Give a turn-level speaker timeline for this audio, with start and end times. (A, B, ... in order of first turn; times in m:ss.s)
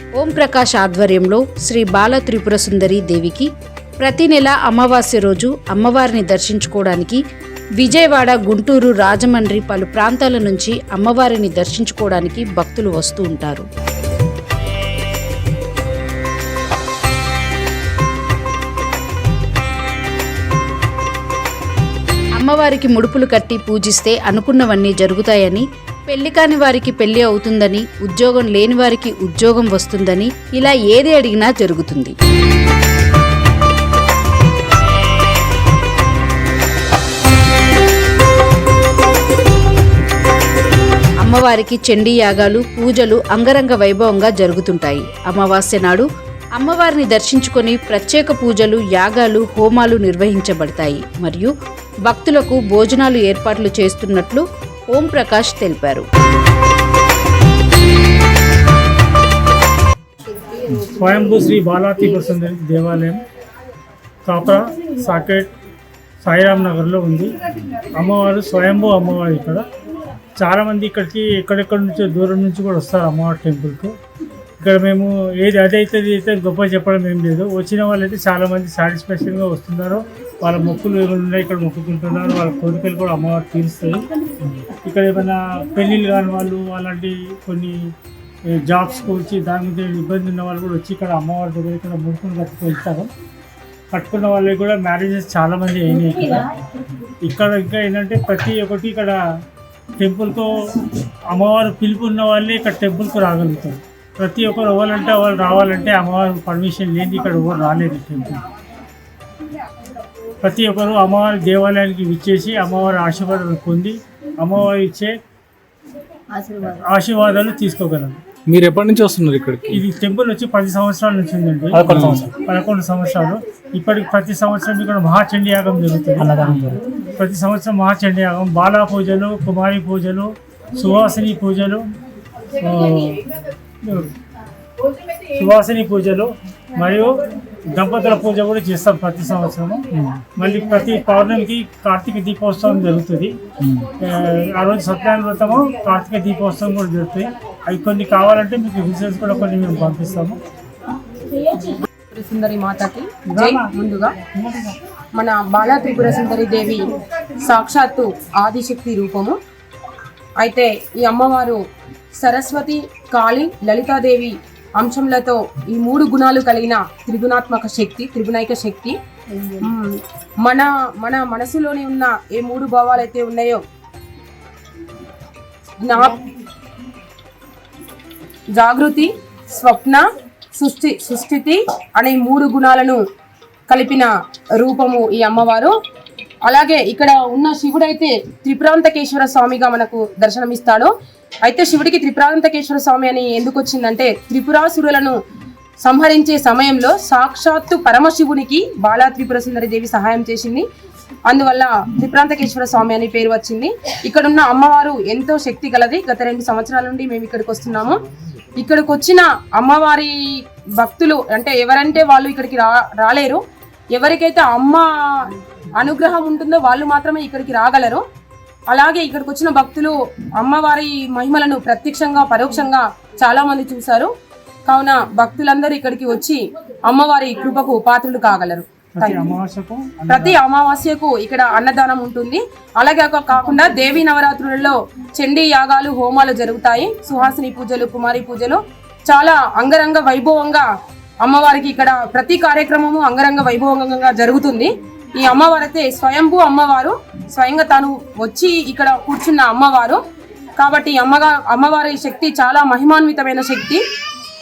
0:00.2-0:03.5 A
0:04.0-0:07.2 A
0:07.8-0:13.7 A
0:22.4-0:32.2 A
0:41.2-0:51.5 A
0:52.1-0:56.1 A
1:00.7-1:03.2 B
1:04.2-1:05.5 B
1:06.2-1:09.7 B
1:10.4-1:14.0 B
1:14.6-1:24.1 B
1:24.7-1:27.9 B
1:28.5-1:33.1 B
1:33.9-1:36.5 B
1:37.2-1:39.2 B
1:40.0-1:48.4 B
1:50.4-1:55.2 B
1:56.6-1:58.2 B
1:58.5-1:59.8 C
1:59.7-2:11.9 B
2:01.7-2:02.3 C
2:06.2-2:06.8 C
2:12.6-2:13.3 B
2:13.8-2:14.1 B
2:15.3-2:23.4 B
2:23.9-2:30.4 B
2:31.7-2:34.2 D
2:33.3-2:33.7 B
2:34.3-2:34.8 B
2:35.2-2:39.4 D
2:40.4-2:41.6 D
2:42.2-2:53.6 D
2:55.8-2:56.3 D
2:58.6-3:00.0 D
3:00.6-3:03.0 D
3:03.7-3:04.1 D
3:04.6-3:05.7 D
3:06.5-3:10.9 D
3:11.4-3:15.2 D
3:15.8-3:20.7 D
3:21.3-3:28.0 D
3:28.6-3:30.2 D
3:30.8-3:33.4 D
3:33.9-3:38.0 D
3:38.7-3:44.1 D
3:44.7-3:49.2 D
3:49.0-3:50.4 B
3:50.1-4:00.7 D
4:01.2-4:10.0 D
4:10.6-4:13.8 D